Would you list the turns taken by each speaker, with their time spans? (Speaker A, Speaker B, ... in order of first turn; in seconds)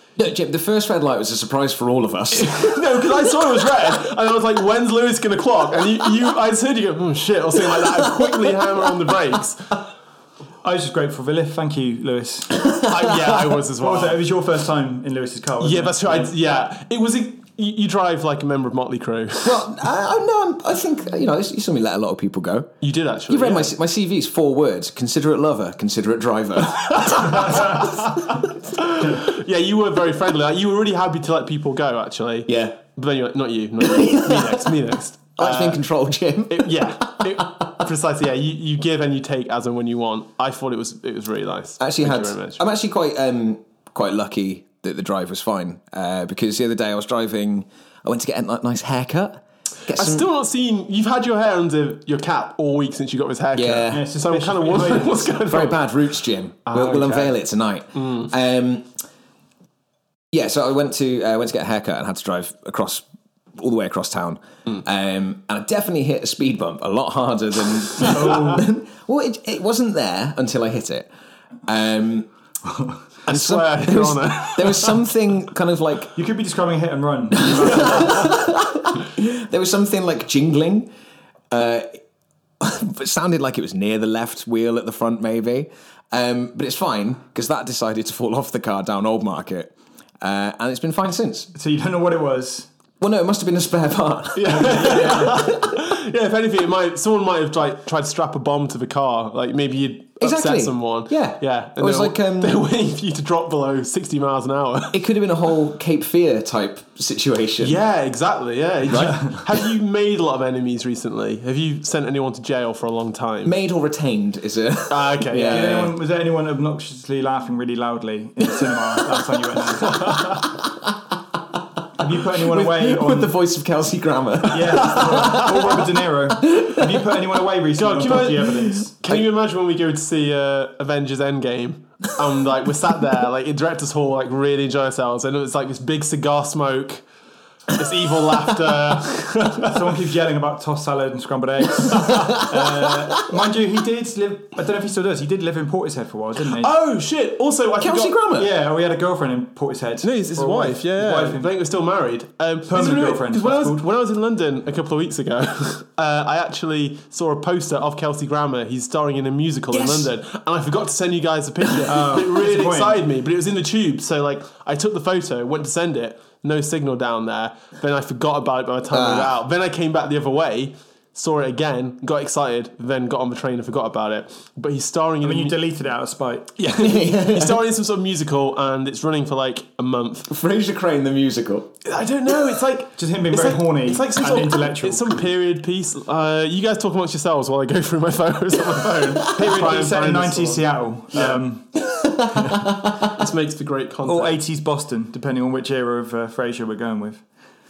Speaker A: 0.2-2.7, 8.1-8.3, 19.4-22.8, 23.3-27.8, 32.5-32.8, 33.8-34.7, 35.4-37.9, 41.8-50.2, 53.5-54.0, 55.5-58.9, 60.3-63.0, 63.6-71.1, 71.7-72.3, 73.3-76.1, 77.4-80.9, 81.5-82.0, 82.6-91.5, 93.0-95.7, 100.2-102.6, 104.9-107.8, 108.9-109.3, 113.4-115.9, 122.0-125.8, 126.5-126.8, 147.8-148.5, 159.7-160.1, 168.9-169.4, 176.6-177.6, 180.3-181.7, 191.9-193.1
Speaker B: 2.3-9.8, 12.8-14.2, 15.6-19.7, 22.8-23.8, 26.8-35.8, 36.5-42.6, 49.9-56.0, 56.7-57.4, 58.0-58.3, 73.3-75.1, 94.3-105.0, 107.6-113.5, 114.9-115.9, 124.9-125.3, 127.8-137.1, 137.7-139.9, 146.5-148.2, 150.0-175.6, 176.6-180.3, 181.8-191.4, 193.0-194.4
Speaker C: 10.6-13.1, 13.7-16.3, 53.9-55.3, 68.0-68.7, 76.2-78.3, 91.5-92.7, 115.5-120.2, 122.0-123.3, 124.5-128.9, 139.4-146.7, 148.4-151.5, 152.7-153.8, 161.9-163.0, 175.2-176.5, 182.9-185.2, 189.1-191.8, 192.4-192.6, 194.1-197.2